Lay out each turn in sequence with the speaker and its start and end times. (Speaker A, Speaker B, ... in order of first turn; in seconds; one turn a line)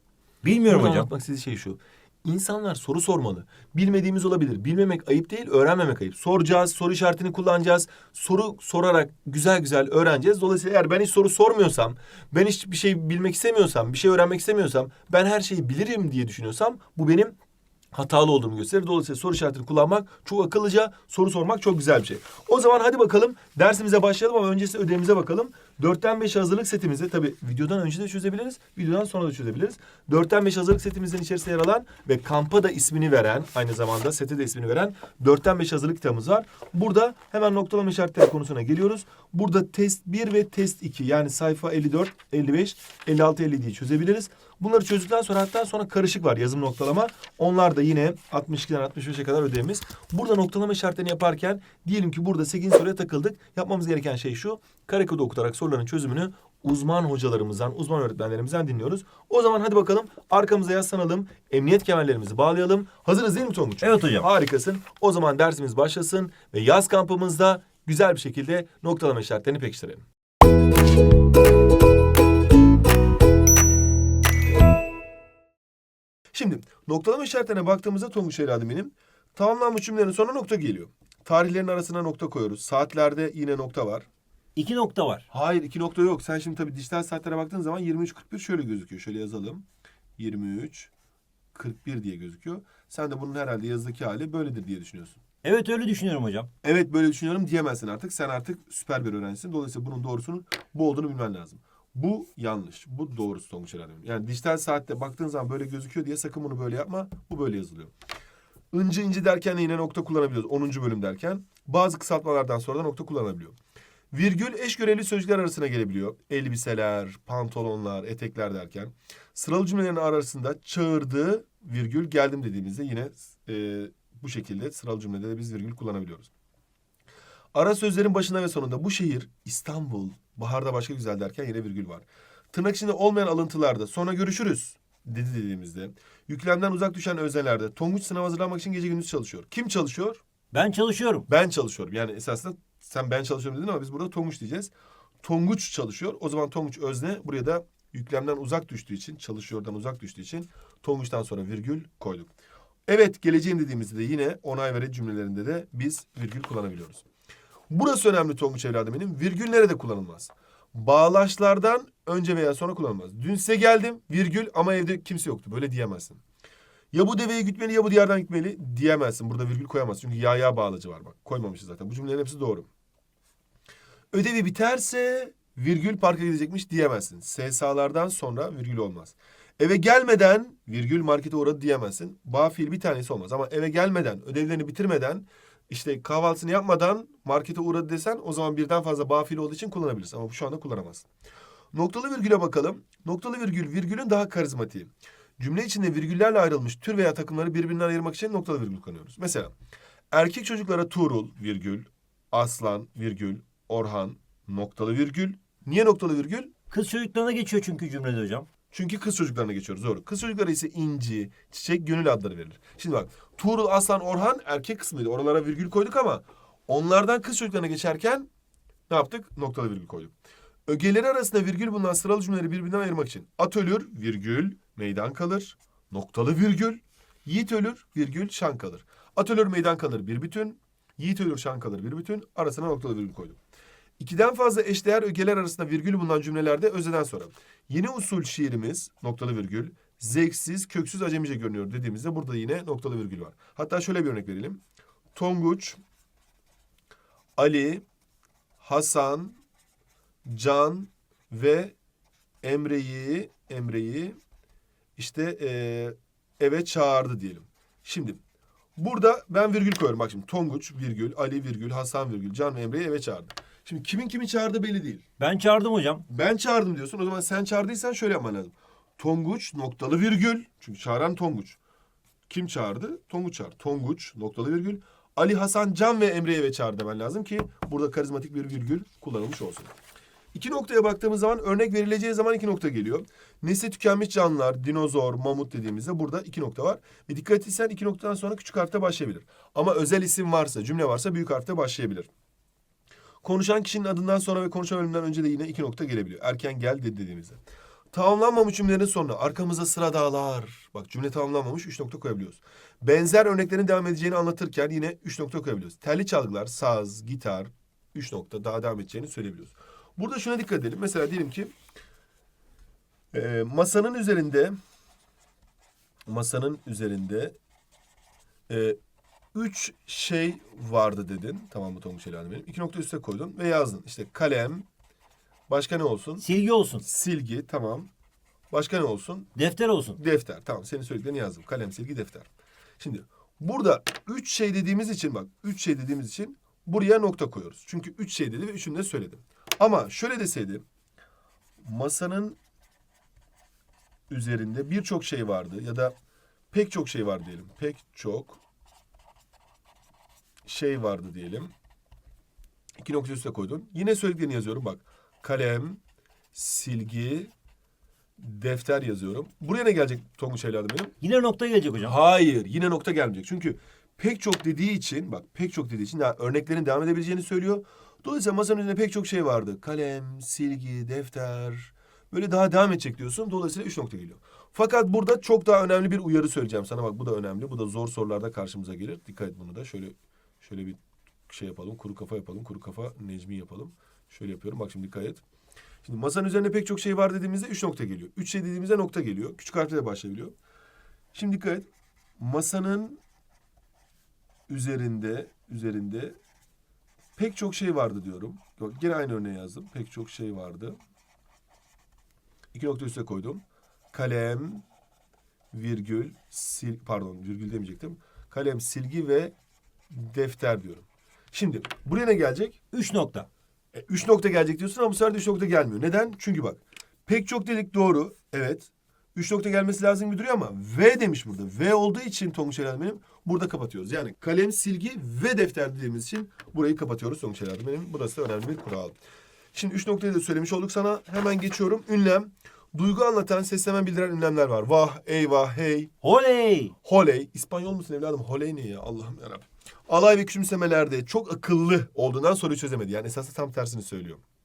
Speaker A: 0.4-1.1
Speaker B: 0.6-17.4
Speaker B: 17.9-70.0
Speaker A: 63.8-64.3
Speaker B: 76.3-84.1
Speaker A: 84.5-85.2
Speaker B: 85.3-89.6
Speaker B: 90.2-90.9
Speaker B: 91.5-95.2
Speaker A: 95.4-96.5
Speaker B: 96.6-107.9
Speaker B: 108.7-113.5
Speaker B: 114.1-126.3
Speaker B: 127.5-140.2
Speaker A: 140.5-141.3
Speaker B: 141.3-144.7
Speaker B: 145.2-152.3
Speaker B: 152.9-157.0
Speaker B: 157.7-166.2
Speaker B: 166.9-172.7
Speaker B: 174.1-191.1
Speaker B: 191.7-199.5
Speaker B: 200.1-206.5
Speaker A: 206.7-208.5
Speaker B: 208.7-218.3
Speaker B: 218.9-220.1
Speaker B: 220.7-233.4
Speaker B: 234.0-244.6
Speaker B: 245.1-245.8
Speaker B: 247.4-247.8
Speaker B: 248.6-249.4
Speaker B: 250.2-251.7
Speaker B: 252.4-254.2
Speaker B: 255.0-258.2
Speaker B: 258.8-265.0
Speaker A: 265.2-266.0
Speaker B: 266.1-271.6
Speaker B: 272.3-279.7
Speaker B: 280.3-292.1
Speaker B: 293.2-297.4
Speaker B: 297.9-311.5
Speaker B: 313.1-314.6
Speaker B: 316.1-317.3
Speaker B: 318.5-318.8
Speaker B: 319.3-324.6
Speaker B: 325.5-326.2
Speaker A: 326.2-326.8
Speaker B: 326.8-327.9
Speaker B: 328.5-329.3
Speaker A: 329.3-330.0
Speaker B: 330.0-332.3
Speaker B: 332.8-340.6
Speaker B: 341.6-342.4
Speaker B: 344.1-345.9
Speaker B: 346.5-348.4
Speaker B: 350.4-351.5
Speaker B: 352.8-355.8
Speaker B: 356.3-357.3
Speaker B: 358.2-360.9
Speaker A: 361.0-361.9
Speaker B: 361.8-385.2
Speaker B: 385.8-390.3
Speaker B: 391.1-391.6
Speaker B: 392.2-393.0
Speaker B: 394.5-396.1
Speaker B: 397.2-400.8
Speaker B: 402.5-404.6
Speaker B: 405.5-409.3
Speaker B: 409.9-412.6
Speaker A: 412.7-413.3
Speaker B: 413.7-429.0
Speaker B: 429.5-435.9
Speaker A: 436.0-436.7
Speaker B: 436.8-444.2